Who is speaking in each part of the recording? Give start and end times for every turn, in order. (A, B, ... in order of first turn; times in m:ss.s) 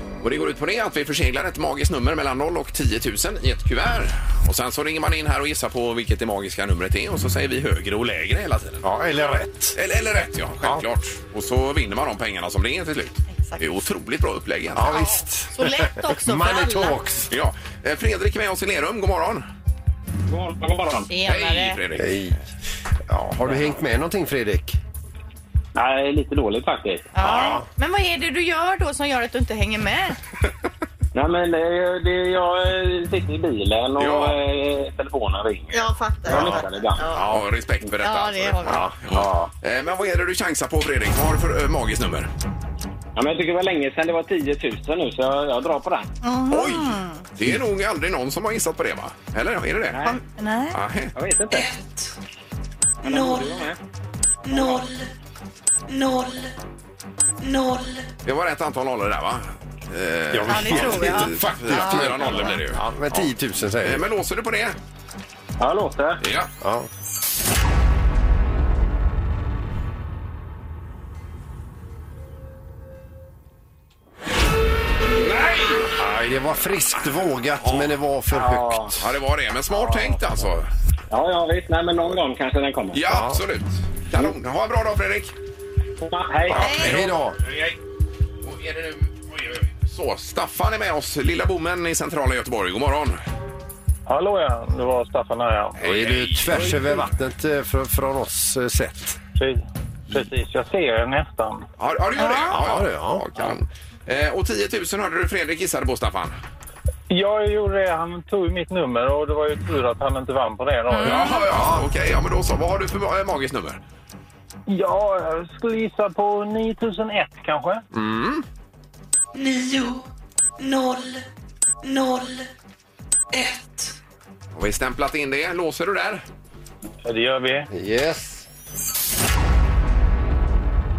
0:00.2-0:08.8 A
0:08.8-0:09.8 B
0:09.8-0:15.0 A
0:13.3-0:13.6 C
0:14.8-0:17.3 B
0:14.9-0:17.0 C
0:17.3-0:19.5 A
0:20.3-0:21.1 D
0:21.1-0:21.8 C
0:21.3-0:22.3 A
0:22.0-0:22.4 B
0:23.1-0:24.8 B
0:25.8-0:27.1 D
0:27.1-0:30.2 C
0:27.4-0:27.6 B
0:31.1-0:37.0 D
0:34.0-0:34.4 A
0:35.7-0:37.3 C
0:36.3-0:36.6 B
0:37.1-0:37.4 B
0:37.3-0:42.3 A
0:38.0-0:38.9 C
0:39.2-0:39.5 D
0:43.2-0:46.1 D
0:46.2-0:47.2 C
0:46.5-0:50.0 A
0:50.0-0:50.8 C
0:50.7-0:51.1 A
0:51.2-0:51.7 D
0:51.5-0:52.1 E
0:53.0-0:53.6 E
0:53.0-0:53.8 D
0:54.4-0:55.1 E
0:55.9-0:56.5 E
0:57.4-0:58.1 E
0:58.2-1:03.3 A
1:00.3-1:04.0 B
1:00.5-1:02.6 C
1:03.8-1:04.8 A
1:05.6-1:06.2 D
1:06.2-1:06.5 A
1:06.6-1:06.9 B
1:15.2-1:15.9 A
1:16.0-1:19.0 B
1:17.6-1:17.9 A
1:18.3-1:19.0 D
1:19.0-1:20.7 A
1:19.7-1:20.2 D
1:21.1-1:23.0 D
1:22.9-1:25.3 A
1:23.1-1:23.4 B
1:26.0-1:26.7 D
1:26.5-1:27.8 A
1:26.6-1:27.0 C
1:26.7-1:27.4 B
1:28.4-1:33.2 A
1:34.1-1:35.8 F
1:35.8-1:39.2 B
1:35.8-1:36.5 A
1:36.5-1:37.0 F
1:39.4-1:41.6 F
1:41.8-1:46.4 A
1:42.1-1:42.6 C
1:42.5-1:43.5 B
1:47.1-1:51.3 F
1:50.9-1:51.5 C
1:51.0-1:53.8 A
1:54.7-1:57.8 F
1:57.9-1:58.4 A
1:59.4-2:00.1 E
2:00.6-2:01.2 E
2:01.8-2:02.5 E
2:03.3-2:04.0 E
2:04.5-2:06.2 A
2:07.0-2:07.7 F
2:07.7-2:08.5 B